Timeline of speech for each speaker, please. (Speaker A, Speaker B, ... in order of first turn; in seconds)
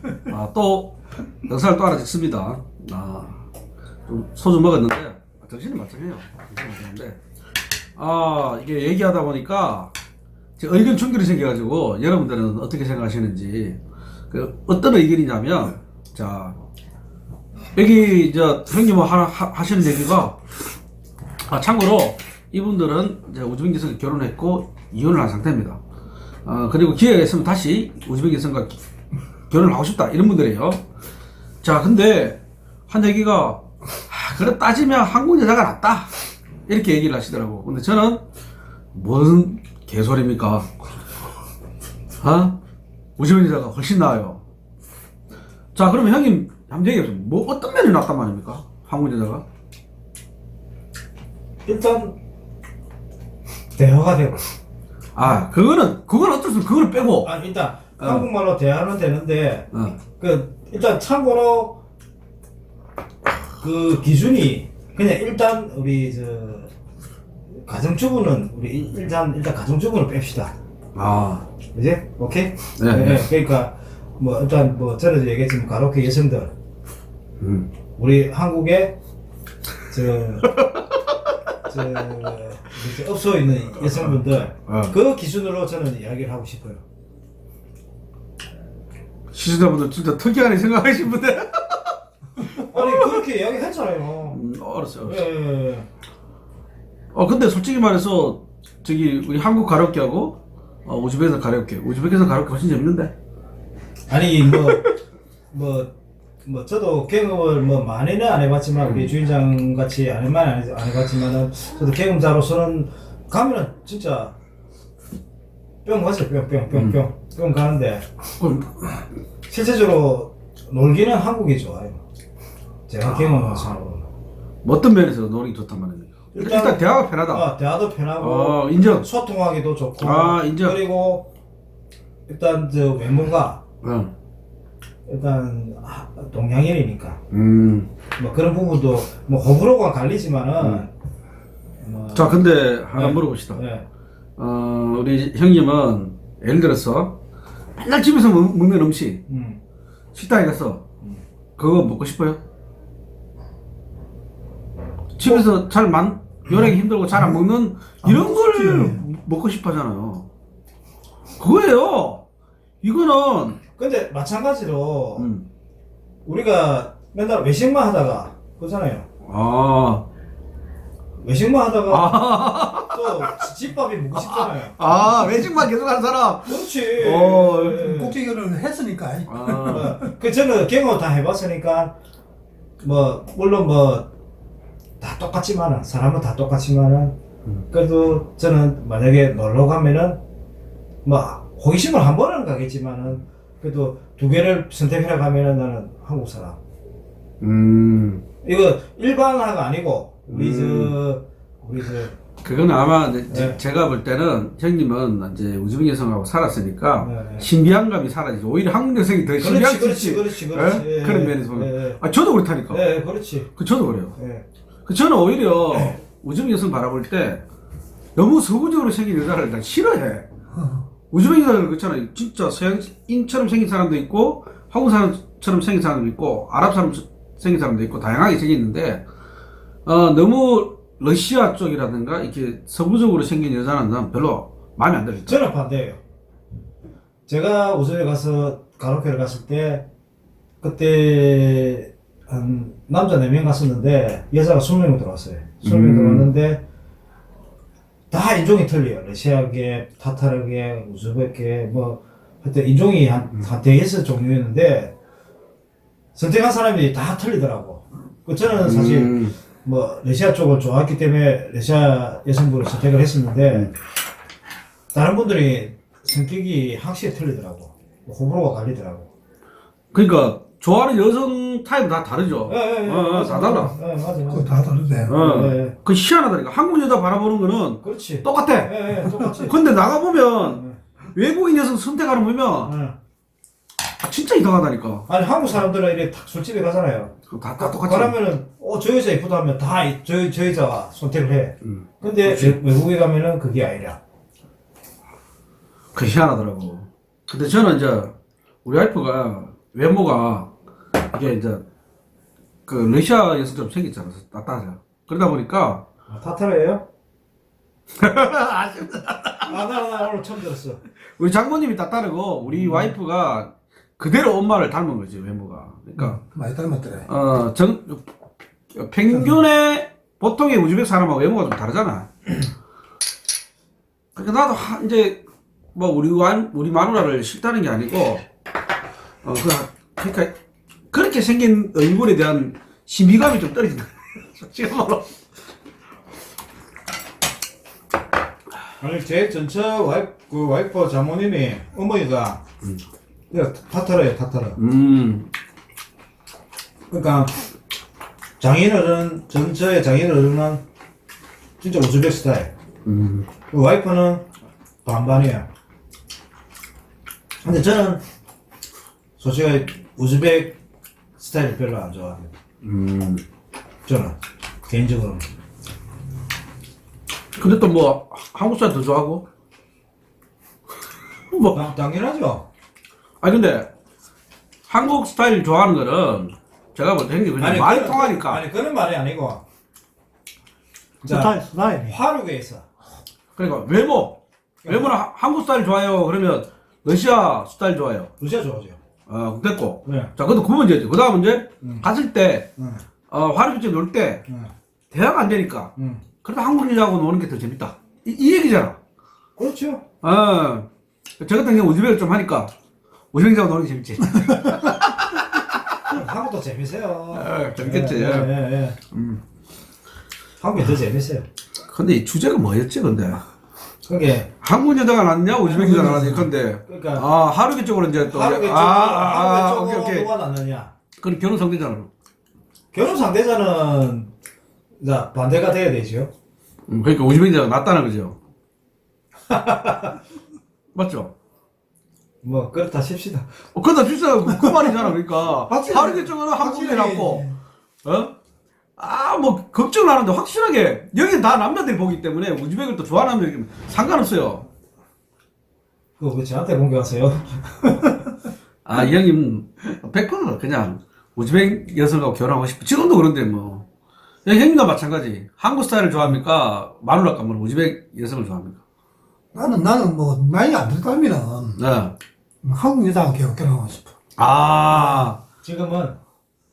Speaker A: 0.3-3.4, 4.1-7.2, 8.0-9.9, 10.6-13.8, 14.3-16.6, 17.8-20.4, 21.5-25.8, 26.5-28.8, 29.5-30.8, 31.6-36.1, 36.7-38.2, 38.9-40.7, 42.2-42.6, 43.2-44.4, 45.8-49.4, 55.2-57.3, 58.0-58.3, 59.7-60.0, 71.0-71.5, 72.8-73.3, 77.4-77.7, 80.6-80.9, 83.8-85.0, 89.3-93.2, 94.3-95.2, 97.1-103.1, 104.5-104.9, 116.7-117.0, 118.4-119.0, 123.0-123.7, 124.6-127.5, 128.2-129.1, 130.0-130.8, 133.8-134.1, 137.3-137.9, 140.6-140.8, 142.2-143.6, 144.4-147.2, 147.8-149.2, 150.1-150.8, 151.6-152.4, 155.2-160.3, 161.4-162.2, 162.8-163.6, 165.2-165.5, 169.2-170.1, 171.9-173.5, 174.2-177.8, 179.3-180.0, 197.4-198.2, 200.3-200.9, 202.4-212.8, 213.6-214.2, 214.9-217.4, 218.2-220.3, 221.1-229.1, 229.8-235.4, 245.6-246.3, 258.6-259.4, 269.9-273.8, 275.1-278.7, 279.4-280.6, 281.1-282.7, 284.0-285.1, 287.3-288.2, 291.7-292.6, 295.9-298.1, 298.6-300.5, 301.1-301.6, 302.7-305.8, 308.0-309.6, 311.2-316.2, 317.1-318.0, 318.7-322.2, 324.1-325.2, 325.8-328.3, 329.2-330.3, 330.9-335.2, 344.6-345.3, 352.9-353.3, 362.6-363.2, 367.4-369.2, 371.3-371.6, 373.2-373.7, 374.7-378.4, 383.4-388.1, 389.1-392.5, 393.1-394.2, 394.9-398.8, 400.0-400.7, 401.2-402.5, 403.1-405.9, 407.1-408.3, 408.9-409.2, 411.7-413.2, 414.4-420.1, 421.0-421.9, 426.7-428.2, 430.8-431.1, 433.5-437.3, 437.8-438.1, 438.8-444.5, 448.6-453.6, 454.2-458.6, 461.6-461.9, 464.2-465.2
Speaker B: 51.7-52.2, 53.8-54.5, 57.2-61.8, 63.6-66.7, 67.6-70.5, 71.7-76.5, 78.0-79.0, 79.9-80.5, 81.7-86.8, 92.7-94.4, 95.0-95.9, 104.1-104.9, 105.5-114.3, 115.8-118.1, 119.5-122.0, 122.9-124.1, 126.3-131.3, 132.3-133.6, 135.1-137.2, 138.2-140.9, 141.8-142.4, 142.9-143.9, 149.3-149.6, 155.2-155.5, 163.8-165.3, 166.2-169.1, 171.2-172.2, 172.9-175.0, 176.5-178.2, 179.7-181.9, 182.8-184.1, 185.0-187.2, 187.7-190.2, 191.1-196.6, 198.4-202.2, 203.3-203.6, 207.0-207.5, 209.4-212.0, 212.7-213.5, 214.2-214.4, 215.7-216.0, 235.3-236.0, 237.3-239.9, 240.6-246.6, 248.1-254.9, 256.1-263.7, 264.9-269.1, 272.5-274.6, 275.1-275.8, 277.8-279.6, 280.4-280.8, 282.6-283.0, 285.1-294.0, 306.1-306.9, 309.5-310.8, 312.5-312.9, 338.8-342.4, 343.3-344.6, 346.9-347.3, 348.4-350.6, 351.6-352.5, 353.5-354.2, 354.9-355.5, 357.4-358.0, 359.2-360.6, 361.2-362.3, 363.9-364.2, 364.7-365.2, 371.5-372.5, 377.4-379.4, 381.0-382.7, 384.6-384.9, 388.2-388.8, 389.9-390.1, 391.6-391.9, 392.6-392.8, 394.3-394.5, 395.8-396.0, 399.4-399.8, 405.9-408.8, 410.4-411.2, 413.9-414.3, 415.3-417.1, 418.0-420.7, 422.7-424.1, 424.8-426.1, 429.3-430.0, 432.2-433.3, 446.0-448.1, 464.7-466.0
Speaker C: 158.1-159.0, 177.6-180.1, 274.3-275.2, 316.0-317.1, 381.1-382.0, 435.5-437.4, 459.3-461.6, 462.4-463.9